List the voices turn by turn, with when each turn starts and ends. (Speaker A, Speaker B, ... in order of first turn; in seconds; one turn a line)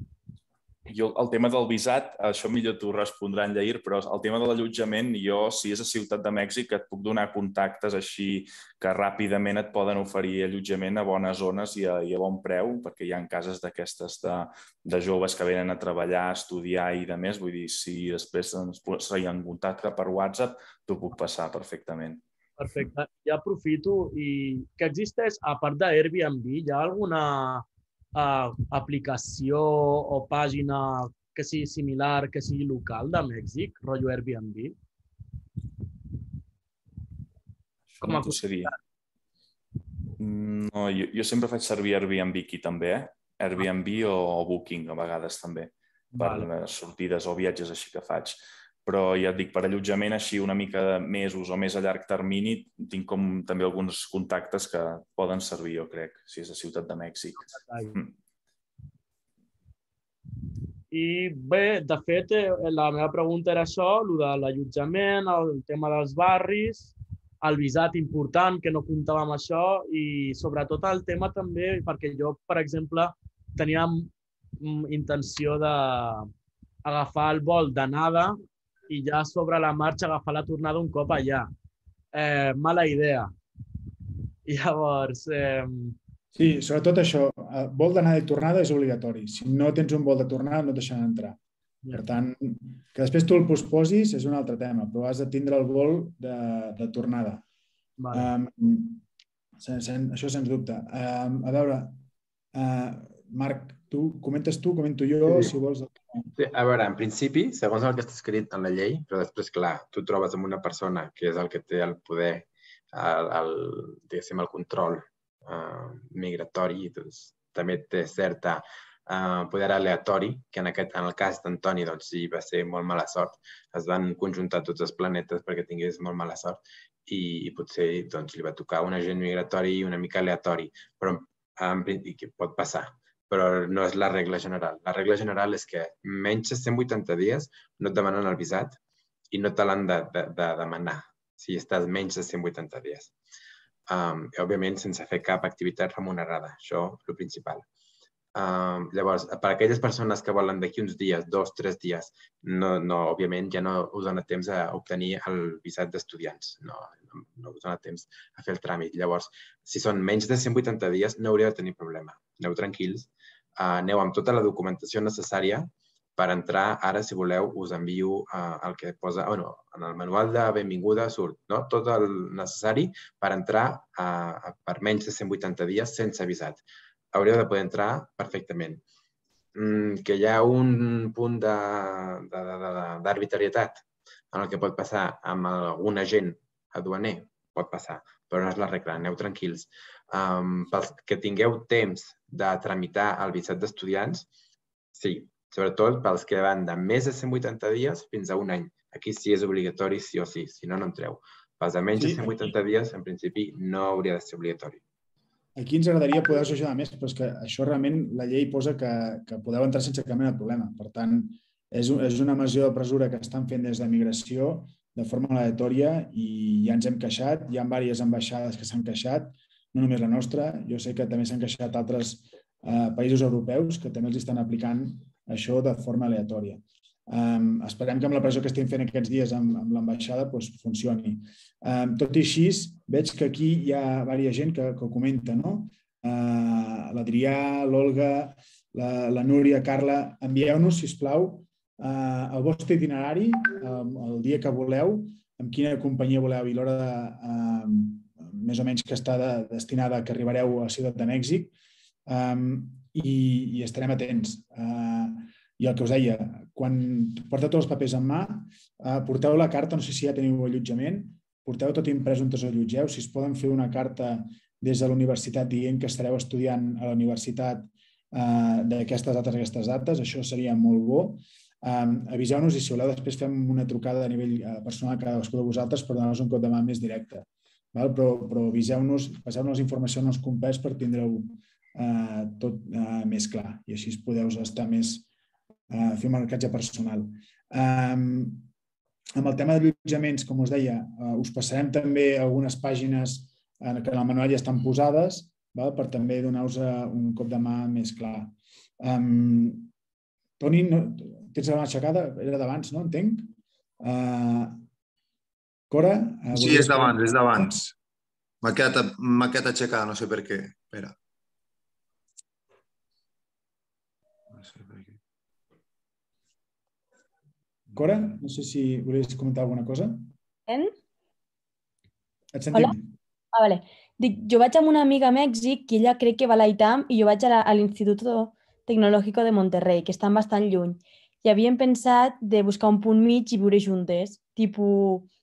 Speaker A: 0.9-22.2
Speaker B: 22.6-34.7
Speaker A: 38.0-38.7
Speaker B: 38.0-38.8
Speaker A: 40.2-58.1
Speaker B: 46.1-46.5
Speaker B: 57.4-58.0
Speaker B: 60.9-76.3
Speaker B: 76.8-78.4
Speaker B: 78.9-81.5
Speaker B: 82.1-83.3
Speaker B: 84.5-86.0
Speaker C: 86.3-91.4
Speaker C: 91.9-97.4
Speaker B: 98.0-98.3
Speaker C: 98.1-99.0
Speaker C: 99.6-102.0
Speaker C: 102.5-106.3
Speaker D: 106.3-138.8
Speaker D: 139.3-143.1
Speaker D: 143.9-147.6
Speaker D: 148.3-178.8
Speaker D: 179.5-194.3
Speaker D: 194.9-204.8
Speaker C: 202.0-202.5
Speaker C: 205.6-251.5
Speaker C: 252.1-285.1
Speaker C: 285.7-288.5
Speaker C: 289.1-299.7
Speaker C: 300.4-304.6
Speaker C: 305.7-307.7
Speaker E: 306.3-307.7
Speaker E: 308.4-310.9
Speaker C: 317.7-320.1
Speaker F: 320.5-320.7
Speaker C: 322.3-322.9
Speaker F: 323.3-335.1